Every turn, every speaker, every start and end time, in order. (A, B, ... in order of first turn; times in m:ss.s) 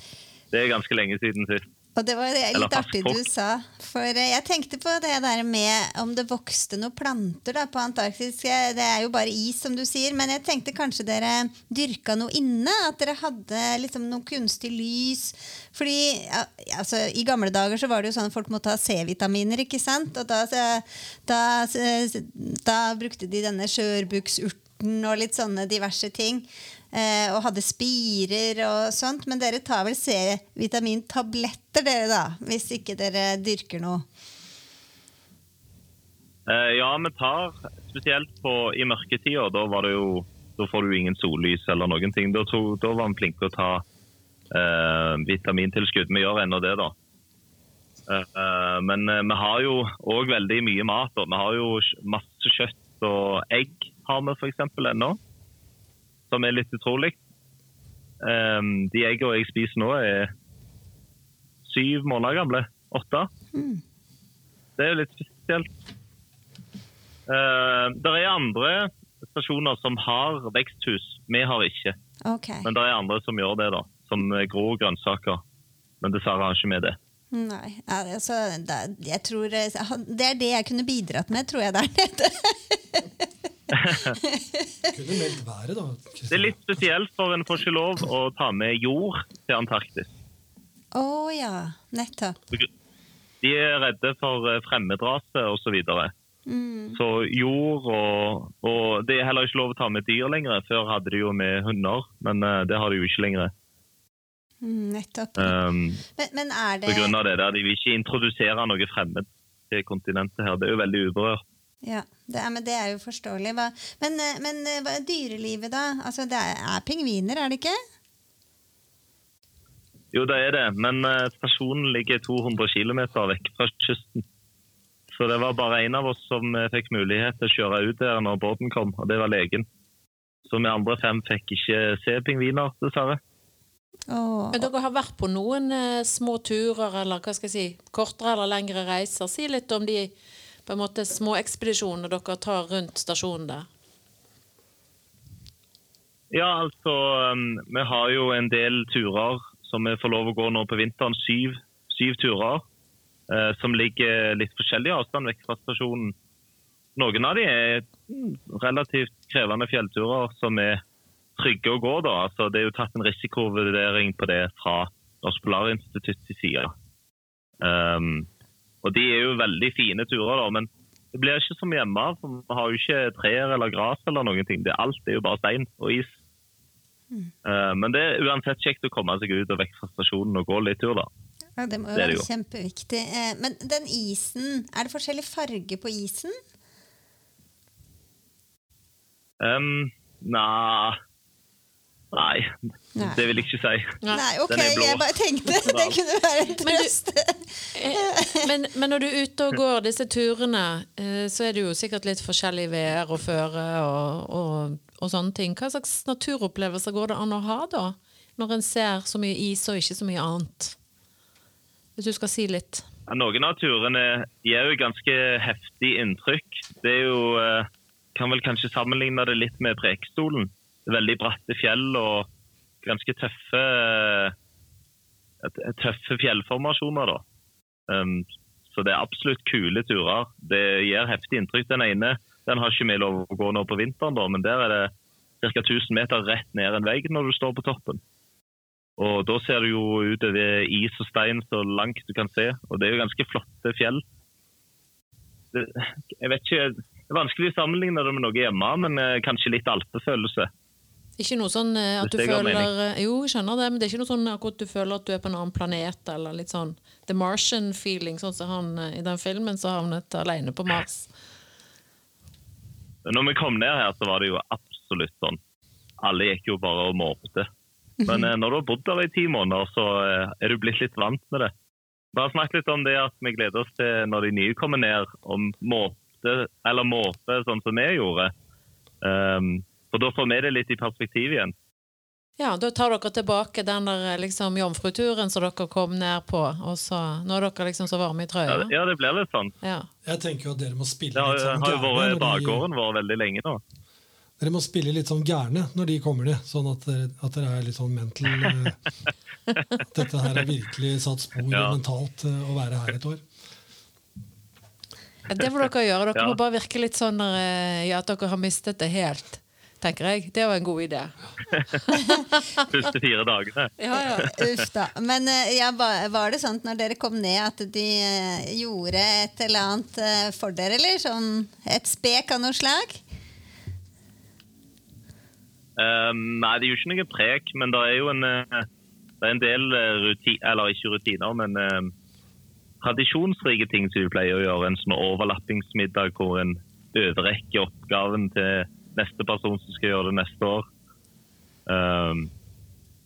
0:00.5-0:01.6 A
0:02.0-0:34.1 B
0:02.5-0:03.2 A
0:36.5-0:43.8 A
0:44.5-0:46.9 A
0:48.1-0:55.2 A
0:56.3-0:57.2 A
0:58.2-1:00.3 A
1:01.6-1:03.3 A
1:03.5-1:03.8 B
1:04.8-1:05.7 A
1:07.3-1:11.9 A
1:12.2-1:12.6 B
1:12.6-1:15.4 A
1:16.0-1:17.0 A
1:17.3-1:23.3 B
1:23.8-1:24.2 A
1:23.8-1:24.6 B
1:24.9-1:26.6 C
1:26.3-1:30.1 A
1:30.9-1:32.4 B
1:33.4-1:36.1 A
1:36.5-1:37.0 B
1:36.9-1:43.5 A
1:44.6-1:45.6 B
1:45.4-1:46.0 A
1:46.2-1:47.2 B
1:46.8-1:51.4 A
1:51.8-1:57.8 B
2:00.1-2:04.2 A
2:05.1-2:09.7 A
2:10.4-2:13.2 A
2:14.1-2:14.7 B
2:14.5-2:20.1 D
2:20.7-2:23.7 D
2:26.3-2:32.6 A
2:33.3-2:36.2 A
2:37.0-2:40.8 A
2:41.4-2:46.7 A
2:47.6-2:48.3 A
2:48.8-2:56.2 A
2:57.4-3:01.1 A
3:01.6-3:06.4 B
3:01.9-3:02.3 A
3:09.4-3:11.0 A
3:12.1-3:14.0 A
3:13.0-3:13.2 B
3:14.1-3:18.4 B
3:14.5-3:16.0 A
3:16.6-3:16.9 D
3:17.7-3:30.8 D
3:32.0-3:32.8 D
3:33.1-3:42.3 A
3:42.8-3:44.3 A
3:45.4-3:47.2 A
3:47.9-3:54.9 A
3:55.4-3:58.0 A
3:59.0-4:04.0 A
4:05.5-4:10.5 A
4:11.2-4:21.1 D
4:12.0-4:12.7 A
4:23.1-4:25.4 A
4:26.0-4:27.5 A
4:28.0-4:28.3 B
4:28.0-4:31.5 A
4:32.1-4:38.3 A
4:39.0-4:41.5 A
4:42.4-4:48.7 D
4:48.5-4:49.5 A
4:49.6-4:49.9 D
4:50.0-4:52.6 C
4:51.2-4:53.6 A
4:54.4-4:58.8 C
4:59.9-5:03.2 C
5:01.5-5:01.8 A
5:05.3-5:12.4 D
5:12.7-5:14.3 A
5:13.8-5:14.3 D
5:14.3-5:23.0 B
5:25.8-5:28.7 A
5:29.2-5:31.9 A
5:32.8-5:40.7 A
5:41.7-5:42.3 A